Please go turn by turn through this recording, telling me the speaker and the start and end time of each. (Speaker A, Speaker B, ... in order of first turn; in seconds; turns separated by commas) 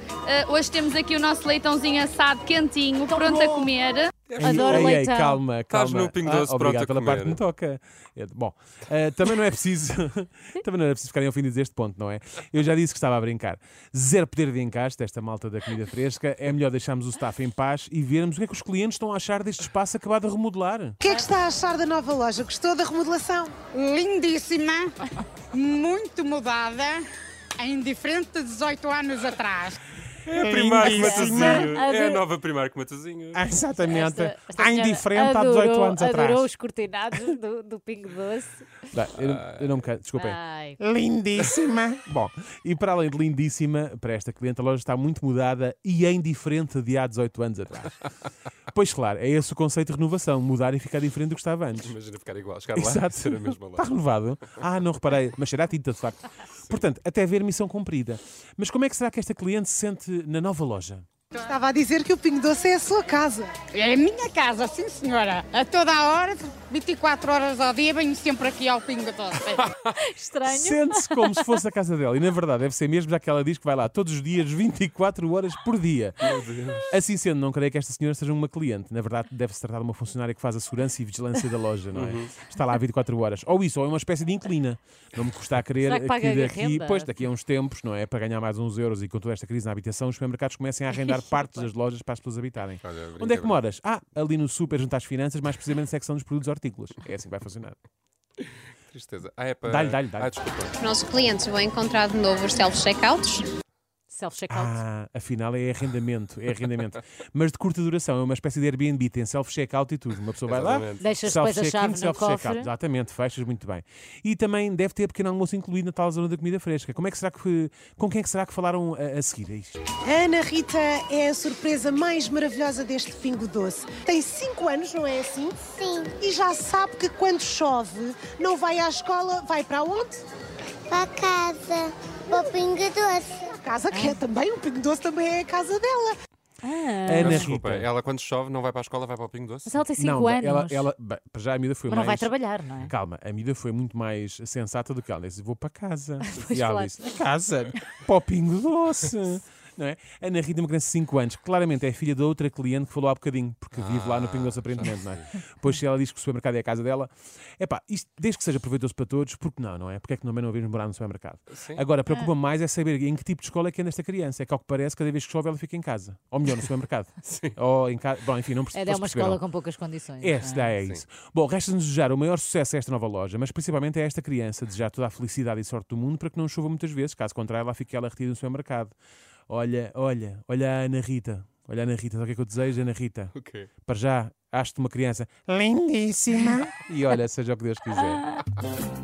Speaker A: 0.3-4.1, Speaker B: 4.3-5.0, Speaker C: 4.4-21.0, Speaker D: 4.4-5.3, Speaker B: 5.7-7.4, Speaker E: 21.0-23.6, Speaker F: 23.7-24.9, Speaker F: 25.5-27.1, Speaker F: 27.6-29.8, Speaker B: 30.3-33.5, Speaker C: 30.3-31.6, Speaker D: 30.8-32.2, Speaker C: 33.3-36.5, Speaker D: 33.8-38.7, Speaker C: 38.9-48.0, Speaker B: 39.2-39.7, Speaker D: 40.1-40.8, Speaker C: 48.7-51.9, Speaker B: 51.8-53.9, Speaker C: 52.7-61.1, Speaker E: 61.3-63.5, Speaker F: 63.7-69.6, Speaker D: 70.0-71.4, Speaker C: 70.4-76.3, Speaker B: 76.2-77.0, Speaker C: 76.9-97.8, Speaker B: 81.9-82.3, Speaker D: 85.8-87.1, Speaker B: 92.8-93.6, Speaker B: 98.9-100.8, Speaker C: 99.7-100.3, Speaker G: 100.8-103.5, Speaker D: 104.1-104.8, Speaker C: 104.5-119.8, Speaker B: 110.5-111.1, Speaker D: 111.0-112.7, Speaker E: 120.0-130.2, Speaker H: 125.8-126.1, Speaker H: 130.9-133.5, Speaker E: 133.5-136.2, Speaker D: 133.9-134.2, Speaker D: 136.6-137.4, Speaker C: 137.1-137.9, Speaker B: 137.1-139.9, Speaker D: 139.7-140.9, Speaker C: 139.9-169.4, Speaker D: 141.9-142.9, Speaker D: 146.2-147.1, Speaker B: 153.7-155.3, Speaker B: 161.6-161.8, Speaker B: 167.3-167.6, Speaker D: 168.7-170.7, Speaker C: 170.2-178.9, Speaker B: 170.7-171.0, Speaker C: 179.5-188.2, Speaker B: 183.4-183.7